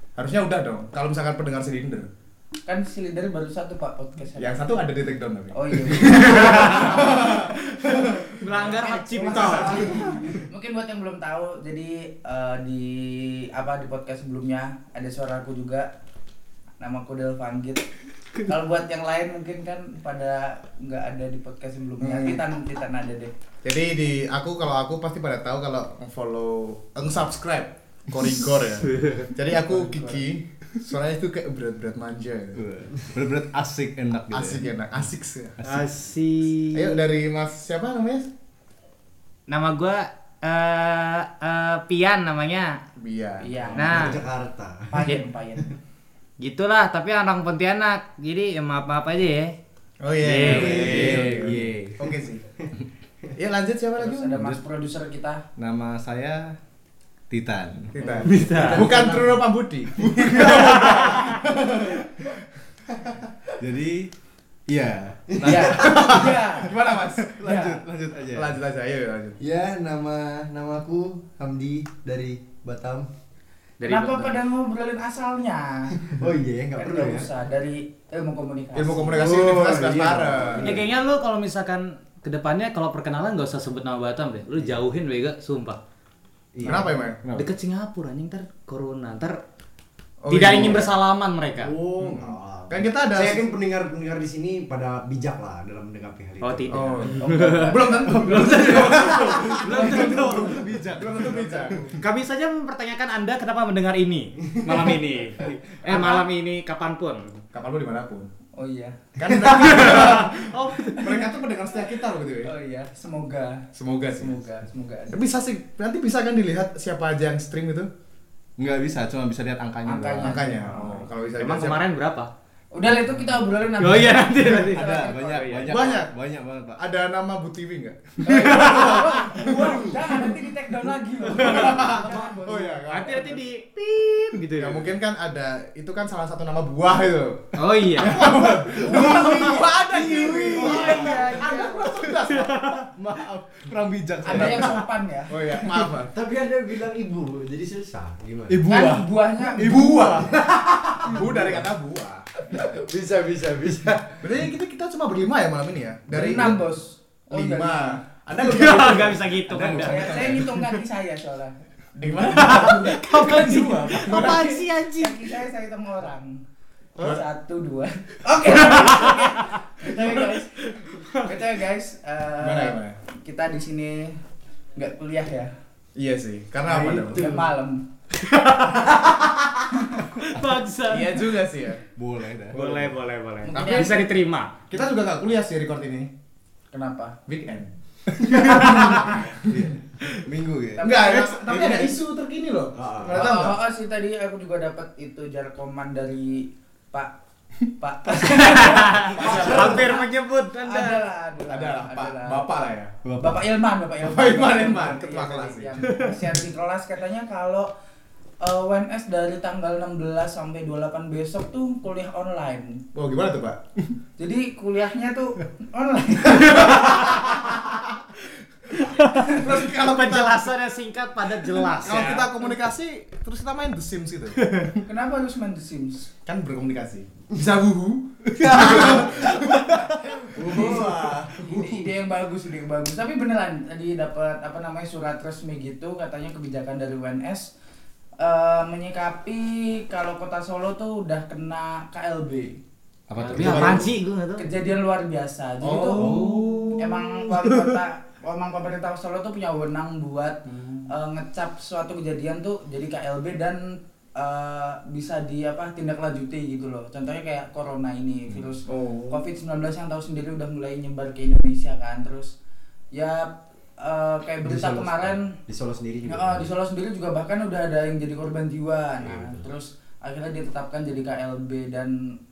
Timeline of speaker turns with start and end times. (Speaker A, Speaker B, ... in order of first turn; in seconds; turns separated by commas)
Speaker A: 0.2-2.1, Speaker B: 2.7-4.8, Speaker A: 4.4-10.4, Speaker B: 5.5-15.9, Speaker C: 6.0-10.1, Speaker B: 16.8-17.9, Speaker B: 18.4-23.3, Speaker A: 22.0-22.4, Speaker A: 23.6-32.6, Speaker C: 28.9-29.3, Speaker D: 32.5-34.6, Speaker A: 34.3-35.6, Speaker D: 35.6-35.9, Speaker E: 35.7-36.8, Speaker C: 35.7-36.9, Speaker A: 36.7-38.3, Speaker C: 39.5-42.8, Speaker A: 43.0-44.1, Speaker B: 43.4-44.1, Speaker E: 43.7-45.1, Speaker C: 43.8-44.2, Speaker B: 44.9-45.8, Speaker C: 46.4-49.5, Speaker A: 50.0-52.4, Speaker C: 50.2-51.7, Speaker E: 50.4-52.1, Speaker D: 50.5-51.0, Speaker A: 53.4-54.4, Speaker B: 54.0-55.4, Speaker D: 55.6-56.5, Speaker D: 57.3-57.9, Speaker A: 57.9-62.3, Speaker C: 58.2-58.9, Speaker E: 58.5-59.4, Speaker E: 60.3-61.0, Speaker C: 60.4-61.4, Speaker A: 62.9-63.3, Speaker D: 63.6-64.1, Speaker D: 64.7-66.3, Speaker E: 65.3-66.1, Speaker B: 65.4-66.7, Speaker A: 65.7-67.3, Speaker D: 67.1-68.6, Speaker B: 67.4-67.8, Speaker A: 68.3-69.4, Speaker E: 69.4-73.1, Speaker C: 73.8-74.4, Speaker B: 73.8-76.2, Speaker E: 76.1-77.3, Speaker B: 76.8-79.4, Speaker A: 78.8-80.8, Speaker E: 79.2-80.8, Speaker C: 80.6-85.8, Speaker E: 86.5-87.0, Speaker A: 86.6-87.2, Speaker D: 87.2-87.5, Speaker C: 87.3-89.4, Speaker A: 90.2-91.0, Speaker C: 90.3-91.8, Speaker E: 90.5-90.9, Speaker E: 91.6-97.5, Speaker A: 92.0-93.5, Speaker C: 96.4-100.7, Speaker A: 96.7-100.1, Speaker B: 97.3-97.9, Speaker D: 98.3-101.5, Speaker B: 99.8-100.6, Speaker A: 100.9-102.0, Speaker B: 101.2-101.9, Speaker C: 102.0-107.4, Speaker B: 105.9-106.2, Speaker A: 107.5-108.3, Speaker B: 108.6-110.2, Speaker A: 109.2-112.5, Speaker C: 109.3-111.2, Speaker B: 110.9-111.3, Speaker B: 112.4-115.2, Speaker A: 113.8-114.4, Speaker A: 115.1-117.9, Speaker D: 118.6-120.5, Speaker B: 119.8-121.1, Speaker A: 120.2-121.8, Speaker C: 121.4-122.3, Speaker B: 122.7-125.4, Speaker C: 123.8-125.8, Speaker D: 124.5-126.8, Speaker A: 125.7-126.1, Speaker A: 126.8-130.1, Speaker B: 128.2-132.9, Speaker C: 128.3-129.2, Speaker D: 129.3-130.0, Speaker A: 131.3-133.4, Speaker C: 131.4-132.1, Speaker C: 132.9-134.9, Speaker A: 134.6-142.7, Speaker C: 137.6-139.7, Speaker B: 138.7-139.7, Speaker D: 139.9-140.8, Speaker B: 140.4-141.8, Speaker C: 142.1-142.8, Speaker D: 142.8-144.8, Speaker B: 144.2-145.6, Speaker A: 144.3-144.7, Speaker A: 145.3-146.1, Speaker E: 146.1-148.6, Speaker D: 148.5-149.0, Speaker B: 148.7-149.8, Speaker D: 149.6-150.4, Speaker A: 149.6-150.5, Speaker E: 150.4-151.5, Speaker A: 151.0-152.7, Speaker E: 152.5-154.2, Speaker A: 154.2-156.6, Speaker B: 156.1-158.0, Speaker E: 156.2-156.5, Speaker A: 157.3-159.4, Speaker C: 158.4-160.5, Speaker D: 159.5-160.8, Speaker B: 159.7-166.4, Speaker A: 162.0-164.4, Speaker C: 162.3-165.3, Speaker D: 163.3-164.0, Speaker B: 167.0-174.2, Speaker A: 167.0-167.2, Speaker C: 168.6-169.6, Speaker A: 169.9-170.2, Speaker C: 170.6-171.2, Speaker A: 172.4-172.9, Speaker B: 174.8-175.5, Speaker A: 176.0-177.4, Speaker B: 176.7-177.8, Speaker E: 176.8-177.5, Speaker C: 178.2-179.1, Speaker B: 179.7-180.3, Speaker C: 180.2-181.4, Speaker A: 180.9-181.8, Speaker D: 181.9-182.9, Speaker C: 182.5-184.6, Speaker B: 183.4-184.0, Speaker A: 183.6-184.0, Speaker A: 184.7-186.1, Speaker B: 186.7-187.2, Speaker A: 187.3-189.7, Speaker C: 188.3-189.0, Speaker D: 189.0-191.9, Speaker B: 190.8-191.9, Speaker A: 190.8-193.6, Speaker E: 192.8-193.4, Speaker B: 193.1-197.1, Speaker B: 197.8-200.1, Speaker C: 198.1-201.1, Speaker A: 199.1-200.0, Speaker B: 200.6-202.5, Speaker A: 201.5-203.0, Speaker D: 203.0-203.4, Speaker B: 203.2-207.7, Speaker A: 204.0-206.1, Speaker B: 208.4-212.8, Speaker A: 212.9-214.0, Speaker B: 214.2-217.3, Speaker C: 216.6-216.9, Speaker A: 216.7-217.8, Speaker C: 218.8-222.2, Speaker A: 219.3-220.5, Speaker A: 221.7-224.6, Speaker B: 221.8-222.6, Speaker C: 224.4-224.7, Speaker B: 224.8-226.1, Speaker A: 226.2-229.6, Speaker D: 228.4-230.0, Speaker E: 228.4-229.3, Speaker B: 228.8-229.7, Speaker A: 230.2-230.9, Speaker E: 230.3-231.4, Speaker B: 230.4-237.5, Speaker D: 230.6-231.3, Speaker B: 238.2-242.6, Speaker D: 243.1-243.9, Speaker C: 243.2-244.5, Speaker B: 243.4-243.8, Speaker B: 244.4-262.3, Speaker A: 245.6-247.0, Speaker D: 245.9-247.7, Speaker A: 250.5-250.9, Speaker A: 258.7-259.2, Speaker B: 262.9-265.4, Speaker E: 264.4-266.5, Speaker B: 266.1-272.1, Speaker E: 269.0-269.4